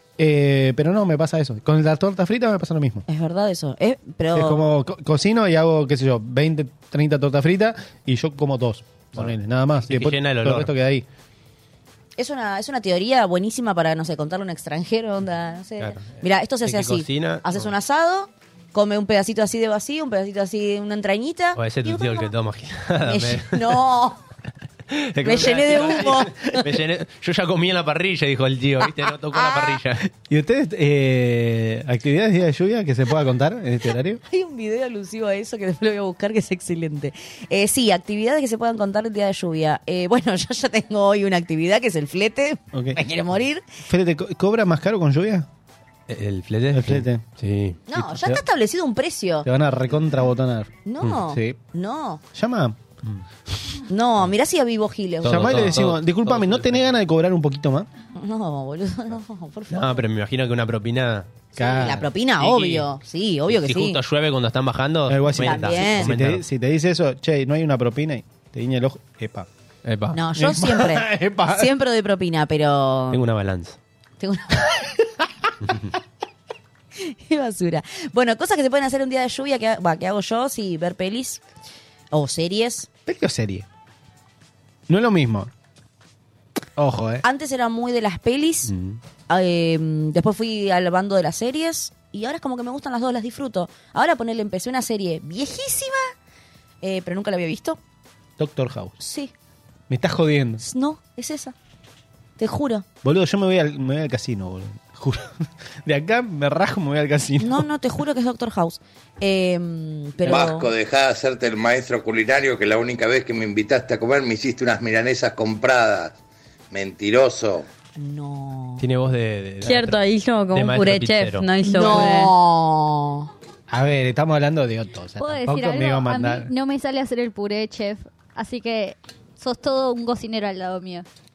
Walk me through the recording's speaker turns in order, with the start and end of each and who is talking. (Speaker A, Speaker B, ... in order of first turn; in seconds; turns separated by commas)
Speaker A: 0.2-3.0, Speaker B: 3.1-4.7, Speaker A: 4.3-11.1, Speaker C: 9.9-10.7, Speaker B: 12.2-22.3, Speaker C: 15.8-17.7, Speaker C: 21.6-23.9, Speaker B: 23.1-24.2, Speaker C: 24.9-30.1, Speaker B: 25.2-26.7, Speaker A: 25.7-26.2, Speaker B: 28.8-29.8, Speaker A: 30.2-34.2, Speaker B: 34.3-43.6, Speaker A: 42.7-43.0, Speaker A: 43.9-45.5, Speaker C: 46.1-47.8, Speaker A: 46.7-47.2, Speaker B: 47.9-49.5, Speaker A: 48.0-48.4, Speaker A: 49.5-50.7, Speaker B: 50.9-52.2, Speaker A: 51.2-51.6, Speaker A: 52.3-53.2, Speaker B: 53.9-55.8, Speaker C: 55.2-56.9, Speaker A: 55.2-57.9, Speaker B: 58.1-60.0, Speaker C: 59.7-61.3, Speaker A: 61.6-62.1, Speaker B: 61.6-64.0, Speaker C: 62.4-62.9, Speaker C: 63.5-66.4, Speaker A: 65.1-69.5, Speaker B: 65.4-66.1, Speaker C: 69.8-70.2, Speaker B: 70.1-73.2, Speaker A: 70.3-71.7, Speaker C: 73.1-73.8, Speaker B: 74.2-75.0, Speaker C: 75.6-75.9, Speaker B: 77.0-81.4, Speaker B: 82.1-82.9, Speaker A: 83.1-83.7, Speaker A: 84.9-85.5, Speaker A: 86.8-87.2, Speaker B: 87.2-88.7, Speaker A: 88.7-89.0, Speaker B: 89.3-96.1, Speaker B: 96.8-97.8, Speaker A: 98.4-99.0, Speaker B: 99.0-99.3, Speaker A: 99.9-100.6, Speaker B: 100.6-101.5, Speaker B: 102.4-102.8, Speaker A: 103.0-107.7, Speaker B: 107.4-110.7, Speaker D: 110.3-116.1, Speaker D: 116.7-117.7, Speaker B: 118.0-118.8, Speaker C: 118.8-121.5, Speaker E: 119.6-122.3, Speaker B: 121.7-123.3, Speaker A: 123.7-126.5, Speaker F: 125.2-131.1